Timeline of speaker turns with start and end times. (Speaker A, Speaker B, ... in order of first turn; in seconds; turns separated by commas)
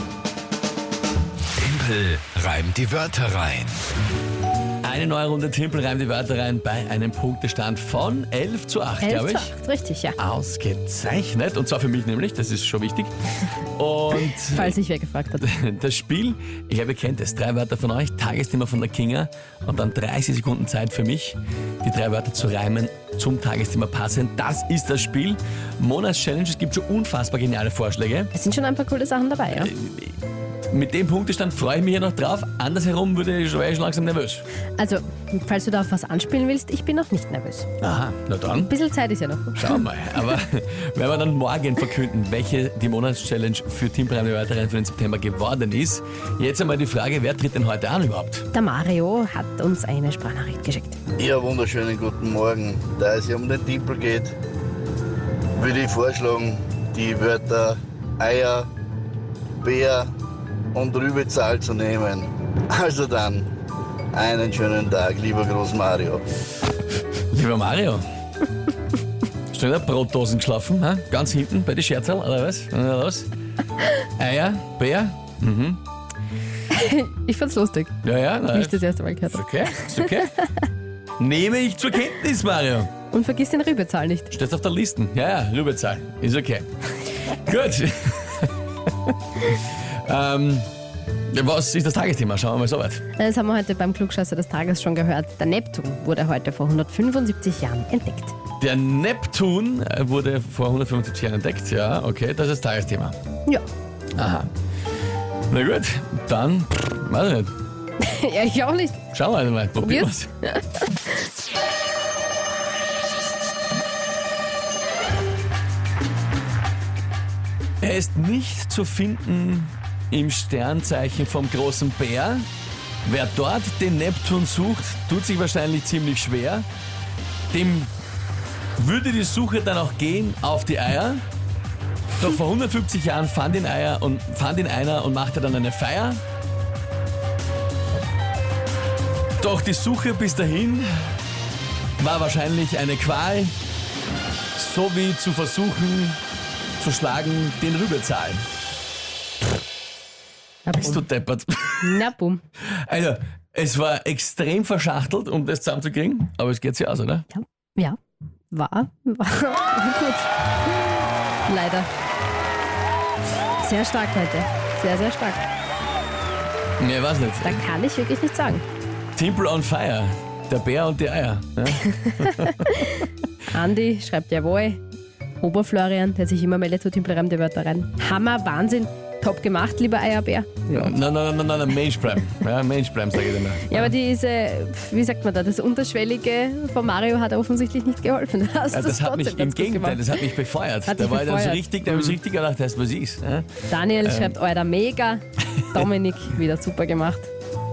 Speaker A: 1.7-3.9, Speaker B: 4.8-9.5, Speaker C: 9.0-10.2, Speaker B: 10.2-13.1, Speaker B: 13.8-14.8, Speaker C: 14.2-15.5, Speaker B: 15.4-28.3, Speaker C: 28.3-29.7, Speaker B: 29.5-30.2, Speaker B: 30.7-34.5, Speaker C: 34.8-37.7, Speaker B: 37.8-38.7, Speaker C: 38.5-39.8, Speaker B: 39.6-48.5, Speaker C: 48.5-51.0, Speaker D: 51.2-54.3, Speaker D: 55.6-58.7, Speaker D: 59.6-60.1, Speaker D: 60.7-63.5, Speaker D: 64.1-66.2, Speaker B: 67.3-68.0, Speaker B: 69.5-73.3, Speaker B: 74.2-75.8, Speaker C: 76.7-78.0, Speaker B: 78.0-80.4, Speaker C: 78.5-80.6, Speaker B: 81.2-82.9, Speaker C: 83.1-84.3, Speaker B: 84.3-90.7, Speaker B: 91.3-93.0, Speaker C: 93.2-98.4, Speaker B: 98.6-103.2, Speaker B: 104.2-104.5, Speaker B: 105.5-107.5, Speaker C: 108.0-109.1, Speaker B: 109.1-110.3, Speaker C: 109.8-111.2, Speaker B: 117.8-122.5, Speaker B: 123.1-126.7, Speaker B: 127.5-127.9, Speaker B: 128.8-131.2, Speaker B: 132.1-136.2, Speaker B: 139.4-141.1, Speaker B: 142.0-143.5, Speaker B: 144.6-146.2, Speaker B: 146.8-148.4, Speaker C: 150.7-151.0, Speaker B: 150.7-152.0, Speaker C: 151.8-152.4, Speaker B: 152.7-157.3, Speaker C: 157.3-158.0, Speaker C: 158.5-160.3, Speaker C: 161.5-161.9, Speaker C: 163.6-165.4, Speaker B: 166.8-167.6, Speaker C: 167.4-168.7, Speaker B: 169.2-172.8, Speaker C: 171.9-174.8, Speaker C: 175.4-181.0, Speaker B: 180.7-183.9, Speaker C: 183.6-190.3, Speaker B: 188.7-194.4, Speaker C: 190.8-192.2, Speaker C: 193.7-197.3